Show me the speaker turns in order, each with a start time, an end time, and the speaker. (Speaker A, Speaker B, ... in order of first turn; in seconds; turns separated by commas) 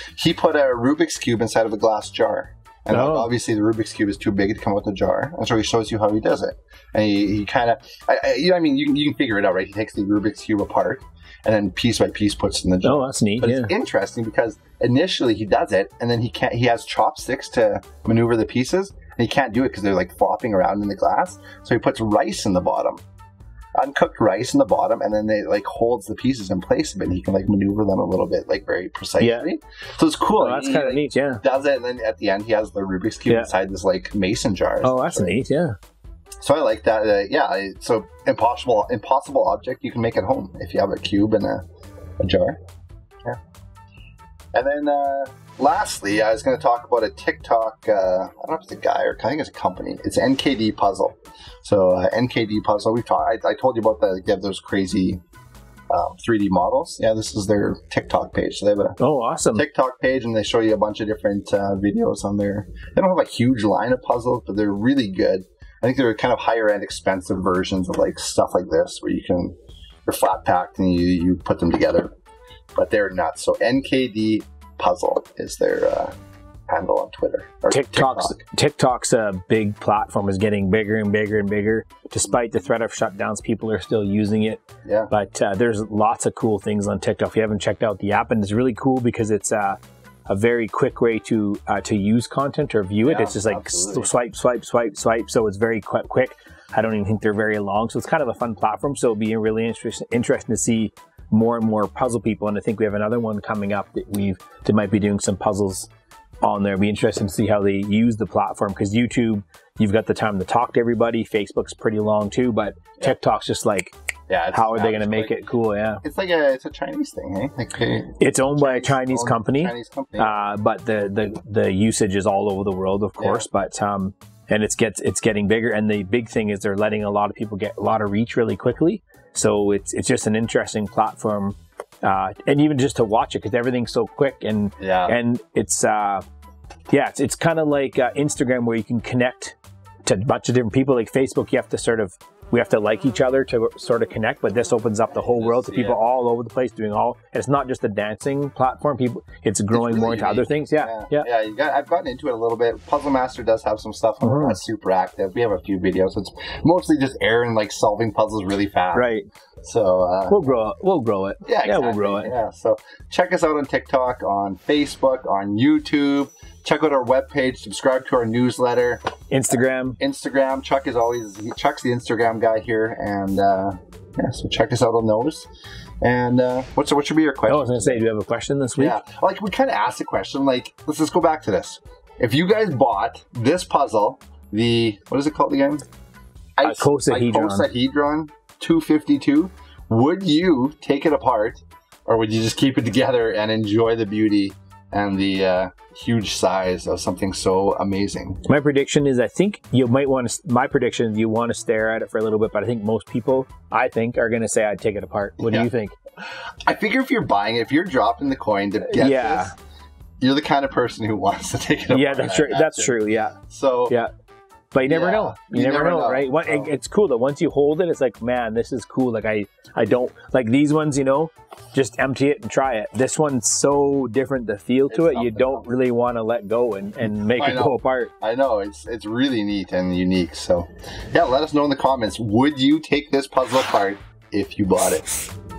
Speaker A: 0.1-23.0, Speaker B: 2.9-3.3, Speaker B: 12.8-13.7, Speaker A: 23.8-35.4, Speaker B: 29.2-29.5, Speaker B: 30.4-31.4, Speaker B: 34.8-35.7, Speaker A: 36.4-41.6, Speaker A: 42.2-42.6, Speaker A: 44.5-55.2, Speaker A: 55.9-59.0, Speaker B: 59.0-59.6, Speaker A: 59.5-72.1, Speaker A: 72.7-76.1, Speaker A: 76.7-78.4, Speaker B: 77.7-105.9, Speaker A: 84.8-85.1, Speaker A: 93.0-94.1, Speaker B: 106.4-113.9, Speaker A: 114.3-115.4, Speaker B: 114.5-116.0, Speaker A: 116.0-120.4, Speaker B: 118.2-136.2, Speaker A: 123.2-123.5, Speaker A: 134.8-135.1, Speaker B: 136.9-151.3, Speaker A: 145.1-146.0, Speaker A: 149.7-159.1, Speaker B: 154.2-154.6, Speaker B: 158.9-159.3, Speaker A: 159.6-160.5, Speaker B: 160.3-162.3, Speaker A: 161.4-169.1, Speaker B: 169.3-170.0, Speaker A: 170.0-175.5, Speaker A: 176.0-178.0, Speaker B: 177.5-179.0, Speaker A: 178.8-185.8, Speaker A: 186.6-198.4, Speaker B: 186.6-187.7, Speaker B: 198.4-205.9, Speaker A: 205.4-205.7, Speaker A: 206.3-209.5, Speaker B: 208.9-209.5, Speaker A: 210.2-213.9, Speaker B: 211.9-213.4, Speaker B: 214.7-228.1, Speaker A: 214.8-216.7, Speaker A: 224.9-225.7, Speaker A: 227.3-235.1